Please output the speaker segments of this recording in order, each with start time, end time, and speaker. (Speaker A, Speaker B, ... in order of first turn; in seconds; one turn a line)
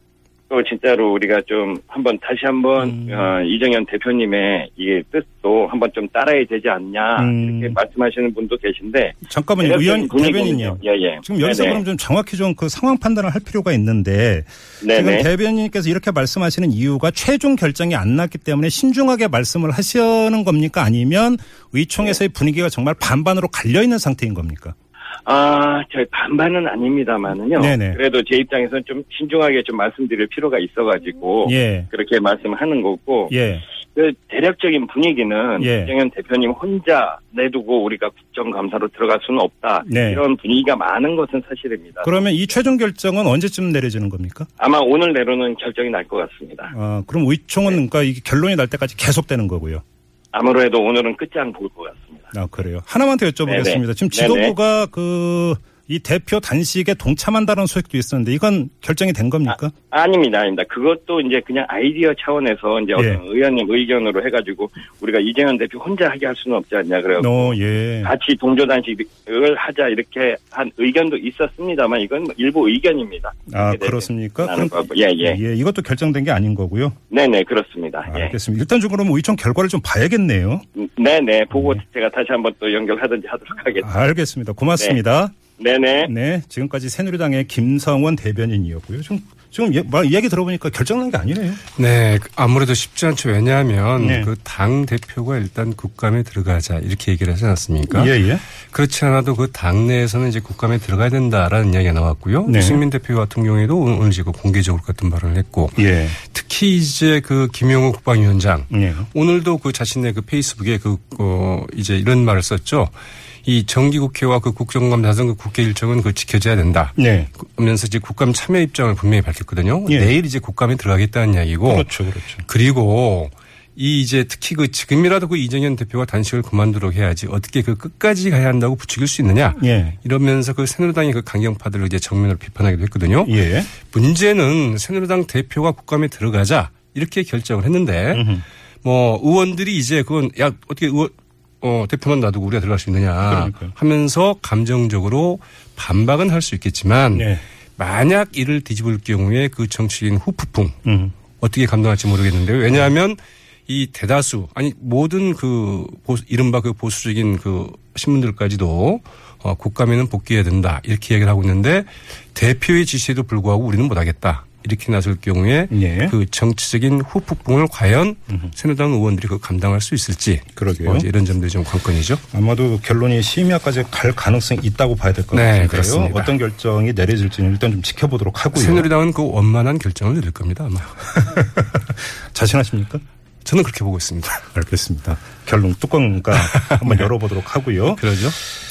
Speaker A: 0.5-11.8
Speaker B: 2.8-3.3
Speaker B: 7.2-7.8
Speaker B: 9.2-24.8
Speaker A: 14.8-15.3
Speaker A: 25.2-33.3
Speaker B: 27.5-28.0
Speaker B: 31.4-31.9
Speaker B: 33.3-33.6
Speaker A: 34.0-42.2
Speaker B: 35.6-35.9
Speaker B: 39.8-40.2
Speaker B: 42.0-44.5
Speaker A: 44.6-46.7
Speaker B: 46.7-49.8
Speaker A: 50.3-52.3
Speaker B: 52.3-59.7
Speaker A: 53.5-54.5
Speaker A: 59.5-75.4
Speaker B: 63.0-63.2
Speaker B: 67.2-68.1
Speaker B: 73.5-77.0
Speaker A: 77.1-78.3
Speaker B: 78.1-80.6
Speaker A: 80.8-83.9
Speaker B: 81.5-81.8
Speaker B: 83.8-85.4
Speaker A: 85.6-86.1
Speaker B: 86.0-91.6
Speaker C: 91.8-112.9
Speaker B: 94.0-94.3
Speaker B: 97.9-98.4
Speaker B: 102.5-102.8
Speaker B: 105.8-106.2
Speaker B: 108.7-109.1
Speaker C: 113.5-121.9
Speaker B: 117.0-117.3
Speaker B: 119.9-120.1
Speaker B: 121.7-122.4
Speaker C: 122.5-138.3
Speaker B: 129.6-130.0
Speaker B: 133.2-133.7
Speaker B: 138.1-138.4
Speaker C: 138.8-150.8
Speaker B: 143.3-143.7
Speaker B: 147.1-147.4
Speaker B: 150.8-151.1
Speaker C: 151.4-172.2
Speaker B: 165.7-166.2
Speaker B: 170.6-171.1
Speaker B: 172.3-178.9
Speaker C: 175.3-176.3
Speaker C: 178.5-181.5
Speaker B: 181.6-183.0
Speaker C: 183.4-184.4
Speaker B: 184.5-188.0
Speaker C: 186.4-187.1
Speaker C: 187.9-188.4